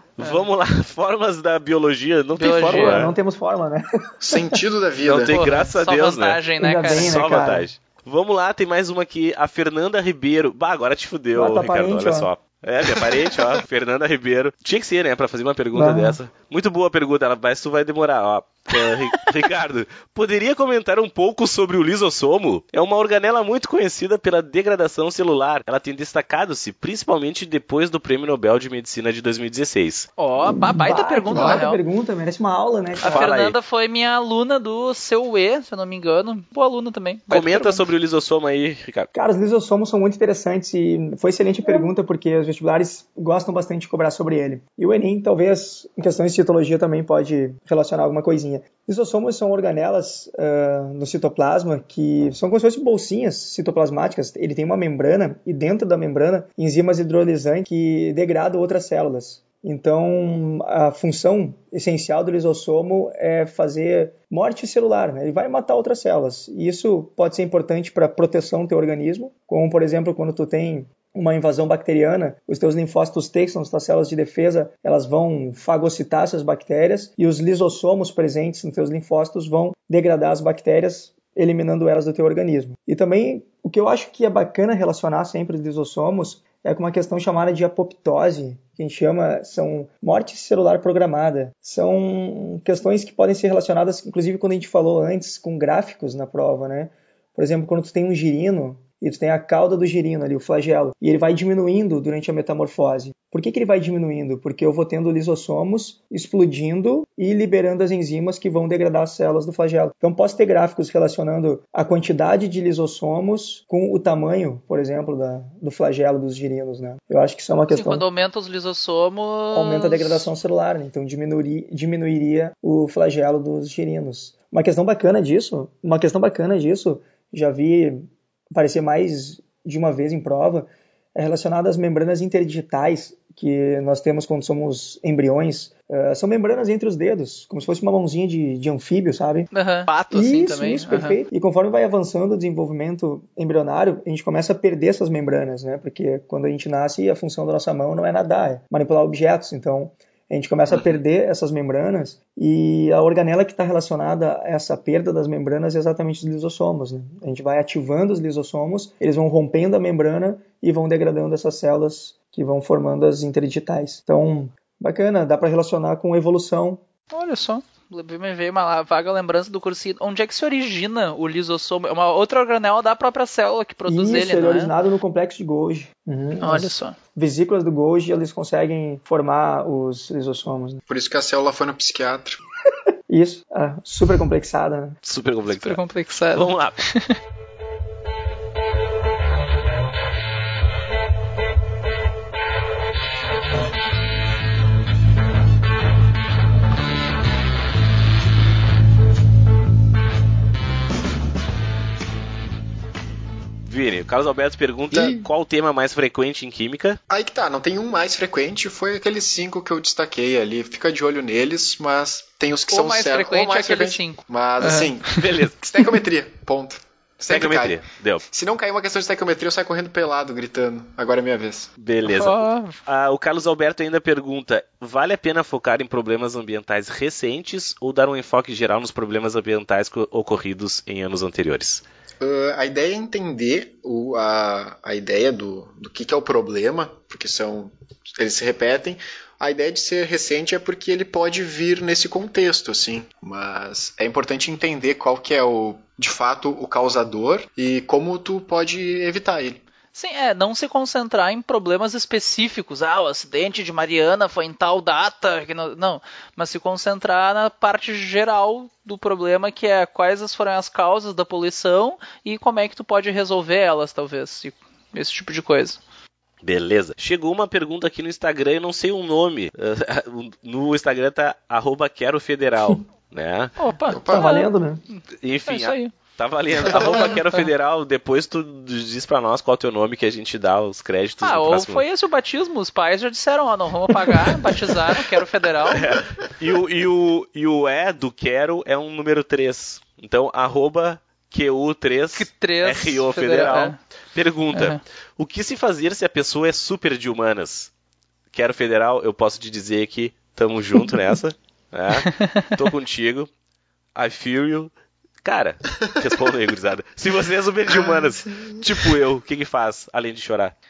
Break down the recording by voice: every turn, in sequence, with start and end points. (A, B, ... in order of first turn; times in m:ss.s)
0:00.2-0:03.1 A
0:02.4-0:03.1 B
0:02.6-0:04.6 C
0:04.2-0:05.3 D
0:05.0-0:30.1 A
0:05.3-0:07.1 B
0:06.6-0:07.7 C
0:11.3-0:12.3 C
0:15.7-0:16.2 C
0:30.2-0:31.8 B
0:30.5-0:33.2 C
0:31.3-0:31.6 D
0:33.0-0:33.5 A
0:33.0-0:37.9 B
0:37.3-0:39.1 A
0:39.1-1:58.0 C
1:57.7-2:00.2 B
1:59.5-2:19.5 C
2:19.5-2:21.2 B
2:20.1-2:46.8 C
2:30.7-2:31.0 D
2:47.1-2:54.8 B
2:53.9-3:00.8 C
2:56.4-2:57.0 B
3:00.9-3:02.4 D
3:03.1-3:05.0 C
3:05.0-3:05.8 A
3:05.5-3:07.2 B
3:06.4-3:06.8 A
3:23.7-3:27.0 A
3:24.9-3:25.3 D
3:27.1-3:41.7 D
3:32.7-3:35.3 B
3:35.2-3:35.6 A
3:37.3-3:38.2 A
3:41.8-3:51.8 A
3:42.0-3:42.8 B
3:52.2-4:09.6 D
4:09.9-4:25.8 B
4:26.4-4:33.6 A
4:33.6-4:35.9 B
4:33.9-4:34.3 D
4:34.1-4:34.8 C
4:35.2-4:41.8 A
4:36.6-4:37.5 B
4:41.2-4:45.9 B
4:45.7-4:57.7 A
4:52.2-4:53.8 B
4:54.5-4:54.8 B
4:58.3-5:03.3 A
5:02.1-5:02.5 B
5:04.0-5:04.7 A
5:05.2-5:10.5 A